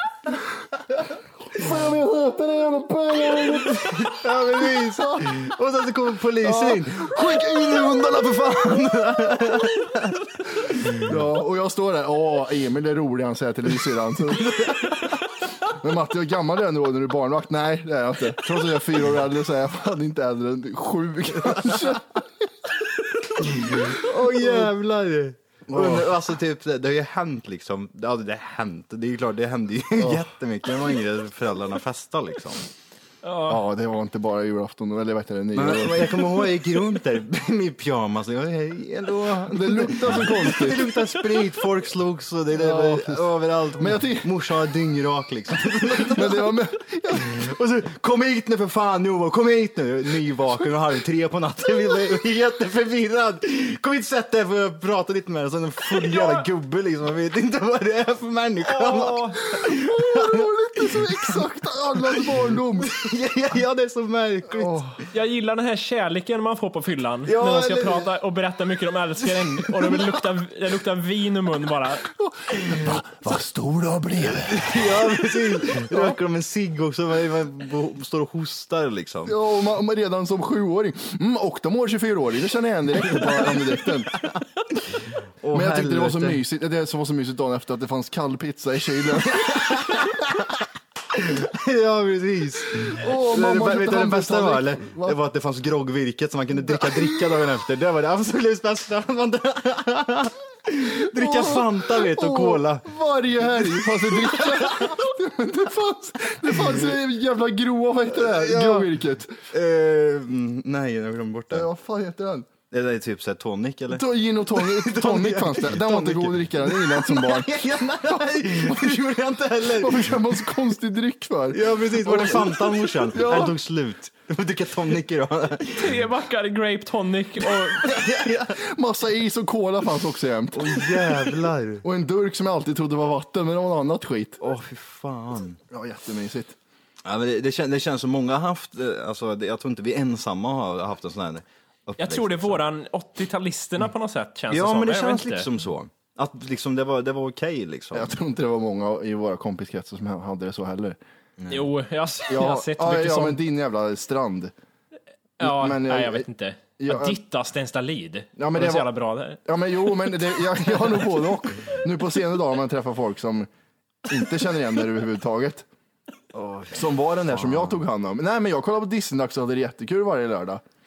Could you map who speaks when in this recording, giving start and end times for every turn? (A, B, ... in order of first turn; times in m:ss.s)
0:01.5-0:04.2 A
0:03.8-0:10.2 B
0:04.8-0:05.3 A
0:06.4-0:08.3 A
0:10.9-0:14.7 A
0:14.2-0:15.1 B
0:15.6-0:22.4 A
0:21.4-0:22.0 B
0:23.5-0:32.6 B
0:23.5-0:24.7 A
0:25.7-0:26.1 A
0:30.0-0:30.2 A
0:33.2-0:33.6 C
0:33.5-0:36.3 A
0:35.5-1:01.4 B
0:39.5-0:40.9 A
0:42.5-0:44.3 A
0:46.0-0:47.4 A
0:58.6-0:59.4 C
0:59.5-1:03.0 A
1:02.2-1:04.8 B
1:04.5-1:05.0 A
1:05.1-1:12.1 C
1:07.2-1:08.1 B
1:09.2-1:10.2 B
1:12.1-1:16.1 A
1:12.7-1:13.0 B
1:14.3-1:19.3 B
1:19.2-1:24.1 A
1:23.0-1:26.4 B
1:25.5-1:30.2 A
1:29.5-1:30.3 B
1:31.1-1:42.9 B
1:32.8-1:35.2 A
1:36.6-1:37.4 A
1:41.1-1:49.4 A
1:43.6-1:45.0 B
1:46.5-1:46.9 B
1:48.1-1:48.9 B
1:49.5-1:51.7 B
1:51.5-1:52.5 A
1:52.7-2:00.7 B
1:53.9-1:59.0 A
1:59.6-2:03.5 A
2:01.5-2:06.0 B
2:05.7-2:08.1 C
2:07.6-2:08.6 B
2:08.5-2:11.2 A
2:10.5-2:11.8 B
2:11.8-2:14.4 A
2:14.4-2:15.6 B
2:15.7-2:16.6 A
2:17.0-2:22.6 B
2:22.0-2:25.5 C
2:24.5-2:28.1 B
2:27.9-2:31.0 A
2:31.4-2:31.7 B
2:31.5-2:33.4 C
2:32.3-2:34.5 A
2:35.4-2:36.3 A
2:35.4-2:39.4 C
2:36.8-2:37.2 A
2:38.4-2:38.9 A
2:39.4-2:43.5 A
2:44.1-2:45.7 A
2:46.3-2:47.8 B
2:46.7-2:50.6 A